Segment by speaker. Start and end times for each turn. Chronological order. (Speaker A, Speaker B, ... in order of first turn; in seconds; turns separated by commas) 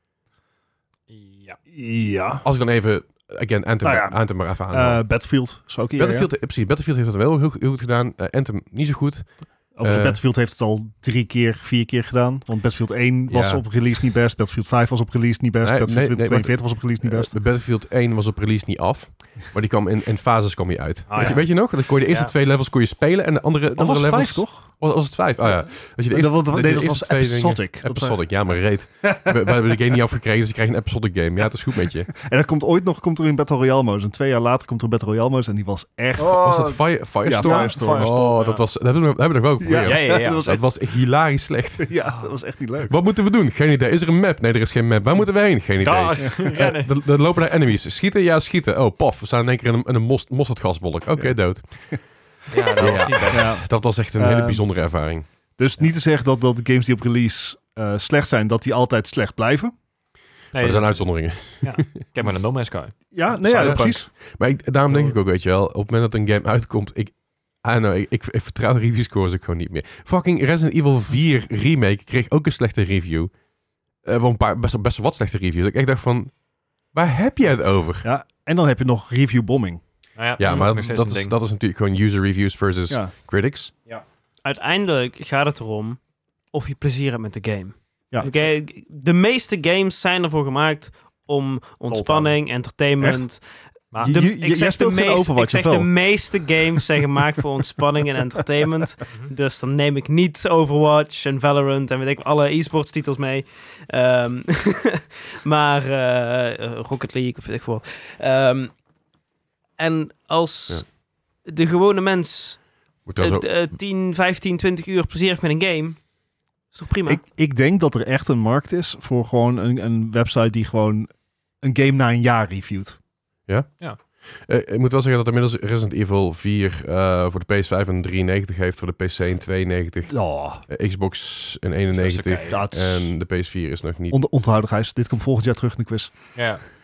Speaker A: 1.1-1.6, Speaker B: 1.7-2.4, Speaker C: 2.4-5.0, Speaker B: 3.8-6.3, Speaker C: 6.0-10.2, Speaker B: 9.7-17.3, Speaker C: 13.3-13.6, Speaker C: 15.6-32.1, Speaker A: 21.1-22.3, Speaker B: 23.7-24.7, Speaker B: 25.4-28.2, Speaker B: 29.0-29.6, Speaker B: 32.1-38.1, Speaker A: 36.2-38.6, Speaker C: 36.3-42.0, Speaker B: 39.6-40.6, Speaker A: 39.8-40.5, Speaker B: 41.8-42.9, Speaker C: 42.8-52.0, Speaker A: 45.8-46.9, Speaker B: 51.2-52.0, Speaker A: 52.5-53.5, Speaker C: 52.7-55.2, Speaker B: 53.2-54.6, Speaker B: 55.6-59.7, Speaker A: 60.5-62.9, Speaker C: 60.5-62.0, Speaker B: 63.1-64.1, Speaker C: 63.5-73.3, Speaker A: 63.5-63.9, Speaker A: 64.9-65.2, Speaker C: 74.0-76.3, Speaker C: 76.9-78.1, Speaker B: 78.0-79.8, Speaker A: 80.2-81.3, Speaker C: 80.4-83.7, Speaker D: 84.4-86.0, Speaker D: 86.5-108.7, Speaker A: 91.9-92.3, Speaker B: 93.0-93.3, Speaker B: 94.0-97.0, Speaker D: 109.8-110.8, Speaker D: 111.4-112.7, Speaker C: 113.0-113.4, Speaker D: 113.2-116.0, Speaker D: 116.7-117.2, Speaker B: 117.0-121.1, Speaker B: 121.6-123.0, Speaker C: 123.5-134.2, Speaker B: 130.1-130.6, Speaker A: 131.9-132.6, Speaker B: 132.5-133.1, Speaker B: 134.1-136.3, Speaker A: 136.3-136.6